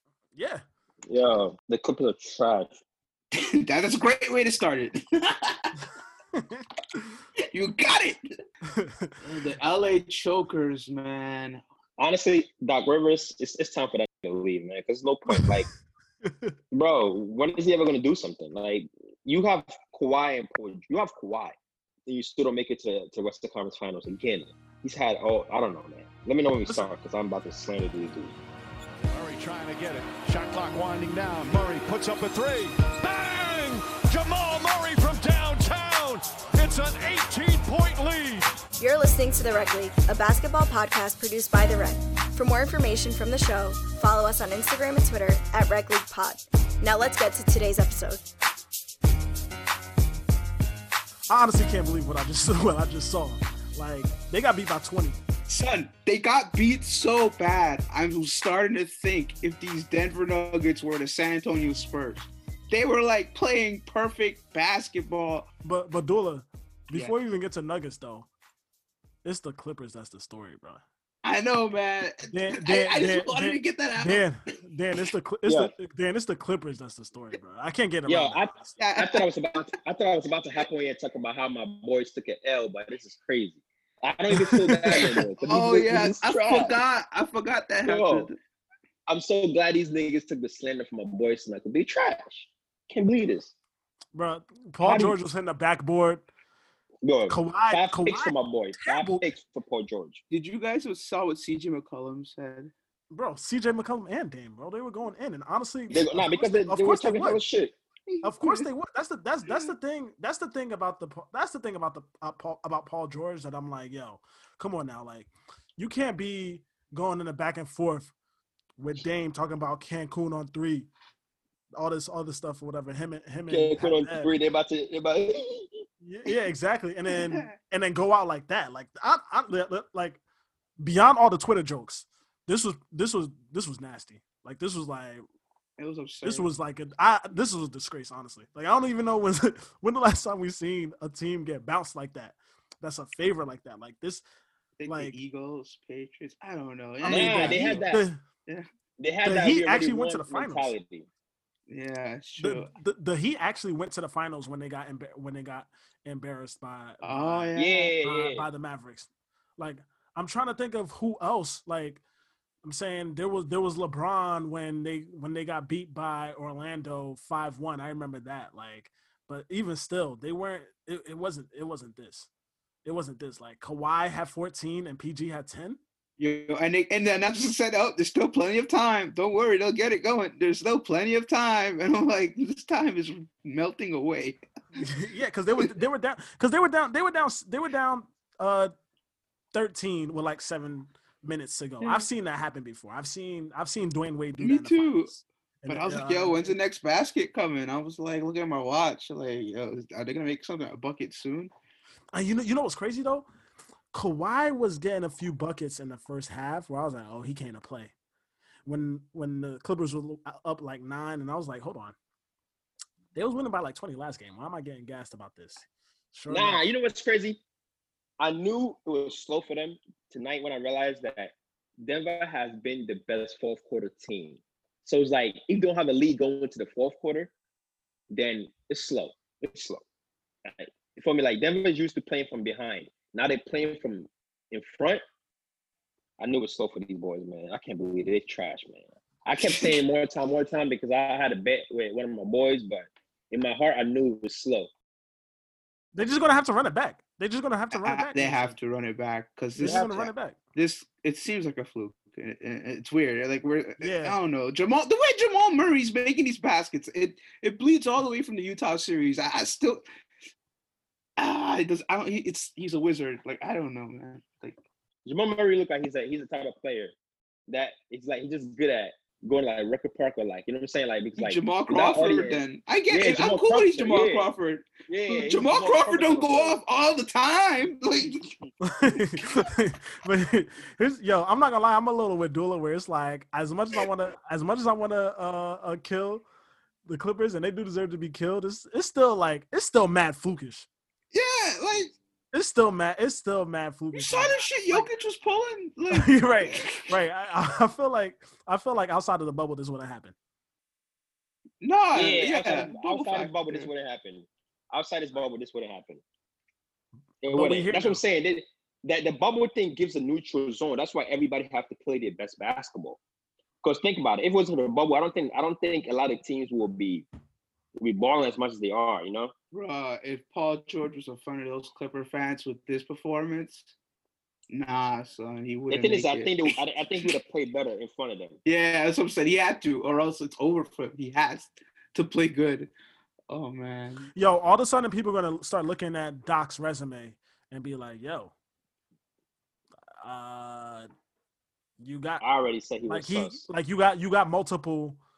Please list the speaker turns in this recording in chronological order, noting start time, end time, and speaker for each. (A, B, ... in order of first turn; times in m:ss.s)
0:00.4-0:00.6 A
0:01.1-0:02.7 B
0:03.3-0:05.7 C
0:06.3-0:06.6 A
0:07.5-0:08.2 C
0:08.7-0:09.1 A
0:09.2-0:11.6 C
0:12.0-0:15.7 B
0:15.3-0:15.6 A
0:16.2-0:16.5 A
0:16.7-0:28.3 B
0:26.6-0:26.9 A
0:29.2-0:38.4 D
0:38.8-0:48.2 E
0:51.3-0:55.2 A
0:55.5-1:05.5 C
1:05.6-1:08.3 A
1:06.9-1:07.2 C
1:09.2-1:10.8 A
1:11.2-1:14.3 C
1:12.3-1:18.8 A
1:15.4-1:15.7 B
1:18.0-1:26.8 B
1:18.8-1:19.2 C
1:24.3-1:25.0 A
1:24.9-1:28.4 C
1:27.8-1:28.3 B
1:29.1-1:33.5 B
1:34.1-1:36.2 A
1:34.8-1:35.2 B
1:37.0-1:40.2 B
1:37.3-1:39.2 A
1:40.3-1:42.7 C
1:43.1-1:47.4 A
1:45.9-1:47.7 B
1:48.1-1:48.7 C
1:48.2-1:58.1 A
1:58.8-2:00.9 A
2:01.7-2:04.3 A
2:03.5-2:05.8 B
2:06.0-2:10.2 A
2:10.8-2:15.2 A
2:15.8-2:16.5 C
2:16.2-2:24.2 A
2:24.8-2:27.8 C
2:24.9-2:25.2 A
2:27.0-2:28.2 A
2:27.0-2:28.1 B
2:29.0-2:31.1 B
2:29.2-2:30.7 A
2:31.7-2:32.7 C
2:32.4-2:42.0 A
2:37.0-2:37.9 C
2:37.6-2:38.4 B
2:42.6-2:52.3 A
2:52.8-2:55.8 A
2:56.2-3:04.8 C
3:04.8-3:08.7 A
3:09.5-3:16.5 A
3:11.8-3:12.1 C
3:14.4-3:15.1 C
3:15.7-3:21.5 C
3:22.1-3:23.3 A
3:23.9-3:27.9 A
3:28.6-3:32.0 A
3:33.1-3:36.6 A
3:36.3-3:37.4 B
3:38.2-3:47.3 B
3:48.1-3:49.8 B
3:50.4-3:55.0 B
3:56.2-4:04.7 B
4:05.9-4:08.6 A
4:07.7-4:19.8 C
4:09.6-4:10.4 A
4:09.6-4:10.0 B
4:13.8-4:14.2 A
4:21.2-4:24.6 C
4:25.0-4:26.9 B
4:27.5-4:34.3 B
4:31.2-4:38.2 C
4:34.9-4:36.6 B
4:38.8-4:46.2 A
4:46.8-4:50.7 A
4:51.1-4:51.9 C
4:52.3-4:54.8 A
4:53.9-4:56.9 C
4:55.9-5:00.1 A
5:01.6-5:03.7 C
5:01.9-5:06.0 B
5:07.2-5:13.0 B
5:07.3-5:08.0 A
5:13.6-5:17.0 B
5:17.8-5:19.3 B
5:19.5-5:23.7 C
5:24.5-5:26.5 C
5:25.7-5:28.4 B
5:28.4-5:32.7 C
5:33.3-5:34.1 C
5:34.1-5:38.3 A
5:40.0-5:40.9 A
5:41.8-5:42.2 A
5:42.2-5:43.4 B
5:42.8-5:45.0 A